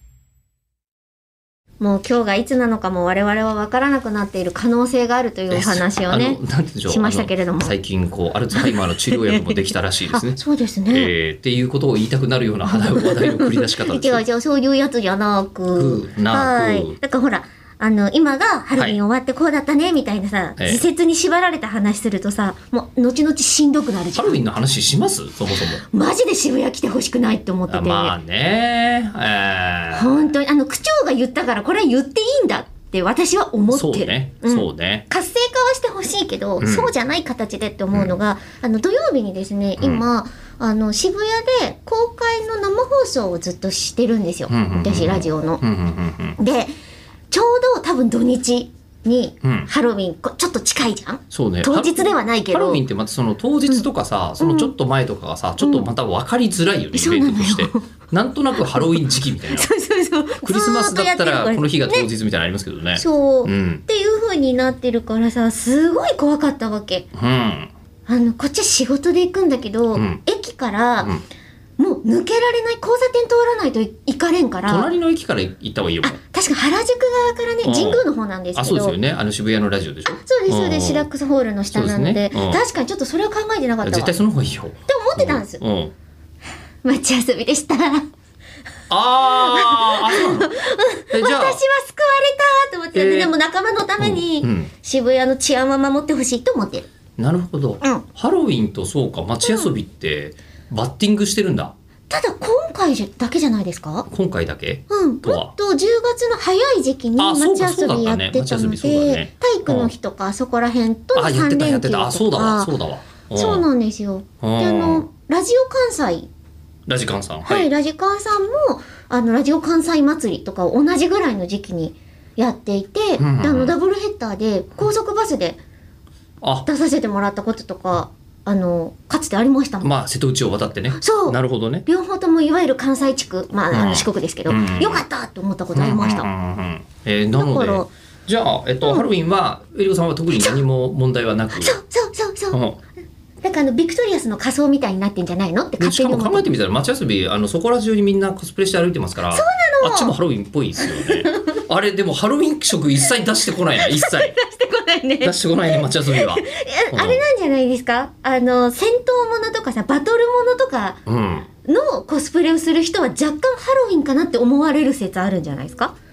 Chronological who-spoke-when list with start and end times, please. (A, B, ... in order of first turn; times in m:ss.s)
0:01.8-0:07.8 A
0:05.5-0:14.2 B
0:08.5-0:11.1 A
0:12.7-0:24.6 A
0:15.8-0:17.0 B
0:24.1-0:25.8 B
0:25.8-0:28.2 A
0:27.7-0:30.2 B
0:29.9-0:45.6 A
0:33.7-0:35.1 B
0:36.6-0:36.9 B
0:44.5-0:46.4 B
0:46.4-0:46.7 A
0:47.3-0:52.8 A
0:49.4-0:49.7 B
0:51.3-0:59.7 B
0:54.4-0:54.7 A
0:55.6-0:55.9 A
0:56.9-0:57.9 A
0:58.7-1:02.1 A
1:00.4-1:03.8 B
1:03.0-1:07.1 A
1:07.2-1:07.7 B
1:08.1-1:11.2 A
1:10.0-1:10.2 B
1:11.8-1:14.9 A
1:14.7-1:16.2 B
1:16.0-1:19.0 A
1:17.6-1:18.0 B
1:18.6-1:21.1 B
1:20.1-1:24.1 A
1:21.7-1:22.6 B
1:23.8-1:25.9 B
1:24.9-1:25.6 A
1:26.8-1:28.1 A
1:28.9-1:30.5 B
1:29.2-1:36.9 A
1:31.1-1:31.6 B
1:33.0-1:33.3 B
1:34.0-1:34.7 B
1:37.2-1:41.7 B
1:37.8-1:38.1 A
1:39.4-1:39.7 A
1:42.1-1:44.1 A
1:44.1-1:45.5 B
1:44.9-1:52.7 A
1:47.2-1:49.9 B
1:51.2-1:53.6 B
1:53.3-1:56.3 A
1:54.4-1:55.1 B
1:56.9-1:57.7 B
1:57.4-2:05.6 A
2:03.2-2:03.8 B
2:06.4-2:06.7 B
2:06.6-2:09.9 A
2:09.8-2:11.8 B
2:11.0-2:16.3 A
2:13.7-2:15.0 B
2:15.8-2:21.8 B
2:17.4-2:17.9 A
2:21.6-2:22.6 A
2:22.5-2:22.8 B
2:23.4-2:26.5 A
2:25.8-2:34.4 B
2:29.3-2:30.2 A
2:30.8-2:31.6 A
2:33.7-2:41.0 A
2:35.2-2:37.2 B
2:41.1-2:41.5 B
2:41.6-2:46.0 A